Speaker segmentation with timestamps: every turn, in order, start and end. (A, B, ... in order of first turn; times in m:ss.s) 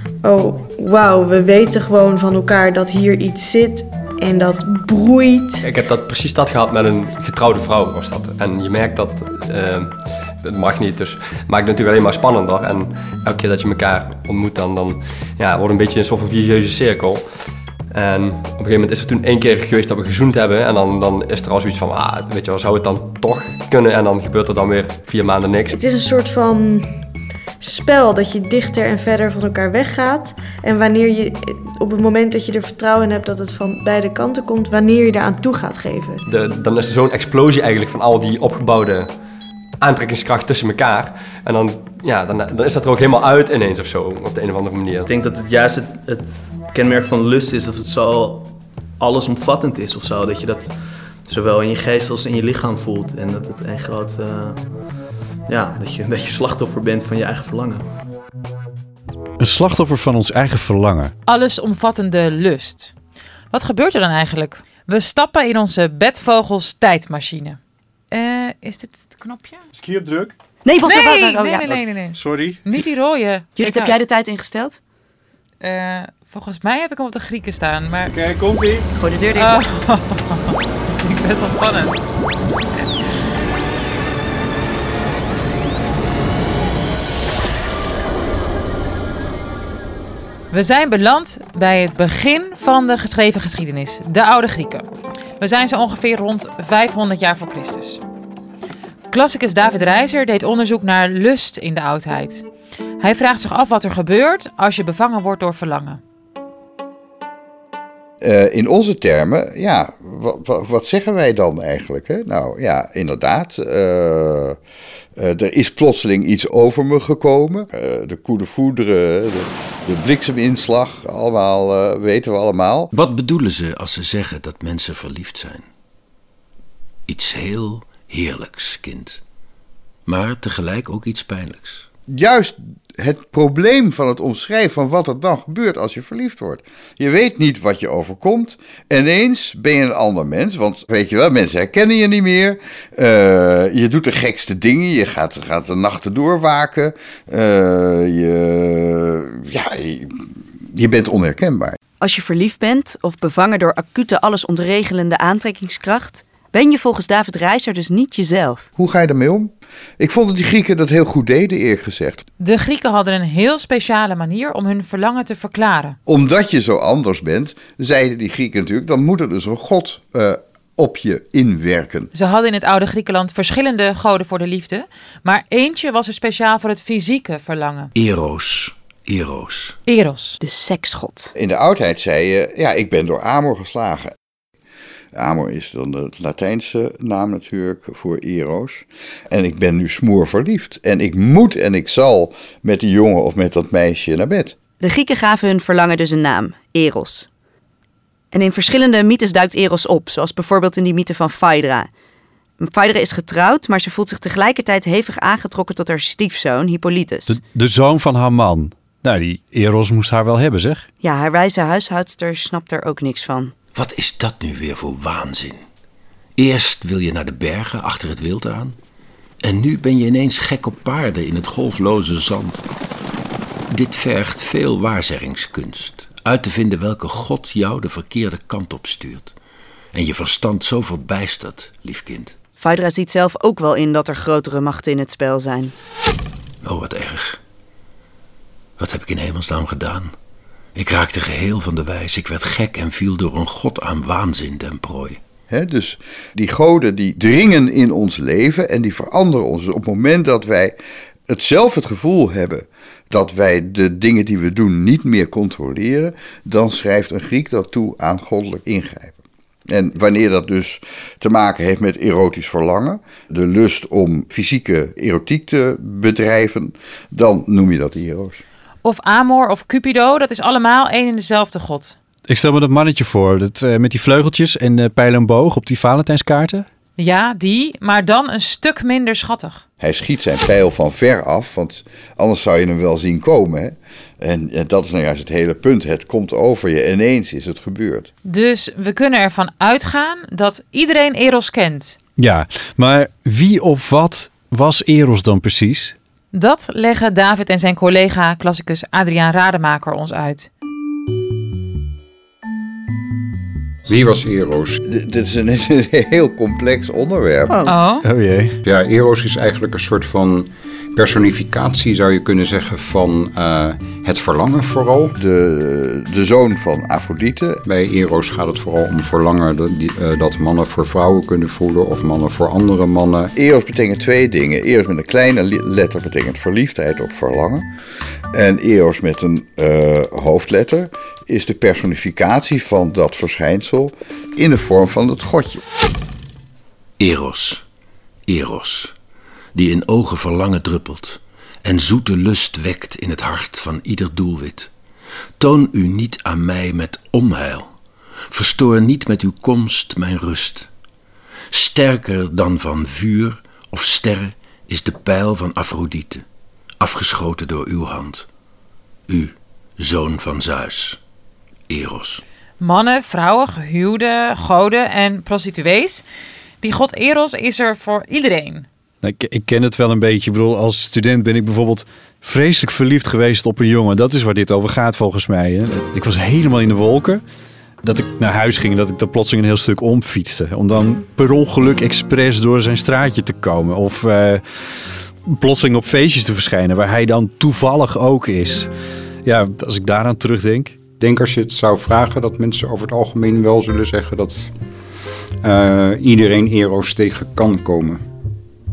0:00.2-0:05.7 A
0:05.6-0:17.3 B
0:17.9-0:25.8 B
0:25.7-0:27.0 A
0:27.6-0:36.2 A
0:36.2-0:39.1 B
0:39.8-0:45.1 B
0:45.0-0:57.9 C
0:59.4-1:01.1 D
1:01.2-1:02.9 E
1:03.5-1:07.6 E
1:08.1-1:09.6 E
1:09.7-1:10.3 D
1:10.6-1:11.7 F
1:10.8-1:14.0 E
1:11.6-1:12.6 D
1:13.6-1:14.8 F
1:15.6-1:18.2 E
1:18.1-1:18.8 D
1:18.9-1:19.6 F
1:19.3-1:22.0 E
1:30.5-1:38.0 E
1:39.1-1:42.4 E
1:43.0-1:46.0 E
1:48.2-1:54.6 G
1:55.2-2:02.9 G
2:02.9-2:05.6 H
2:07.1-2:09.2 H
2:10.0-2:11.8 H
2:12.1-2:31.8 G
2:32.0-2:38.6 F
2:38.8-2:42.2 G
2:42.4-2:46.0 E
2:46.1-2:52.1 G
2:52.1-2:57.9 E
2:57.9-2:59.8 H
2:59.8-3:00.4 E
3:00.4-3:01.3 F
3:01.4-3:04.1 G
3:05.1-3:14.6 G
3:14.8-3:17.3 F
3:18.3-3:21.9 F
3:22.6-3:27.3 F
3:27.3-3:30.8 D
3:31.0-3:33.5 F
3:33.7-3:35.6 H
3:36.4-3:38.8 H
3:39.4-3:42.6 H
3:43.7-3:49.3 H
3:49.9-3:52.3 H
3:52.6-3:55.7 F
3:56.6-3:57.4 H
3:58.8-4:00.1 H
4:00.7-4:05.2 H
4:05.5-4:10.8 G
4:11.3-4:19.2 G
4:19.7-4:28.4 G
4:28.8-4:32.0 E
4:32.3-4:36.6 D
4:37.0-4:39.6 E
4:39.8-4:48.1 G
4:48.2-4:52.0 E
4:52.2-4:55.9 D
4:56.3-5:00.5 E
5:03.9-5:04.8 I
5:04.9-5:07.6 G
5:07.6-5:08.0 E
5:08.0-5:08.5 D
5:08.6-5:15.2 I
5:15.2-5:17.6 G
5:17.6-5:23.3 I
5:23.3-5:27.7 G
5:28.3-5:35.6 G
5:37.0-5:37.6 H
5:38.3-5:38.9 H
5:39.5-5:44.7 H
5:45.4-5:47.7 H
5:48.3-5:50.7 H
5:51.5-5:56.2 H
5:56.8-5:58.2 H
5:59.1-6:01.0 H
6:01.7-6:02.2 H
6:02.6-6:06.0 E
6:06.6-6:08.7 E
6:09.0-6:17.2 D
6:17.8-6:24.4 D
6:25.3-6:28.7 D
6:29.2-6:30.8 D
6:31.0-6:34.5 I
6:35.4-6:38.0 I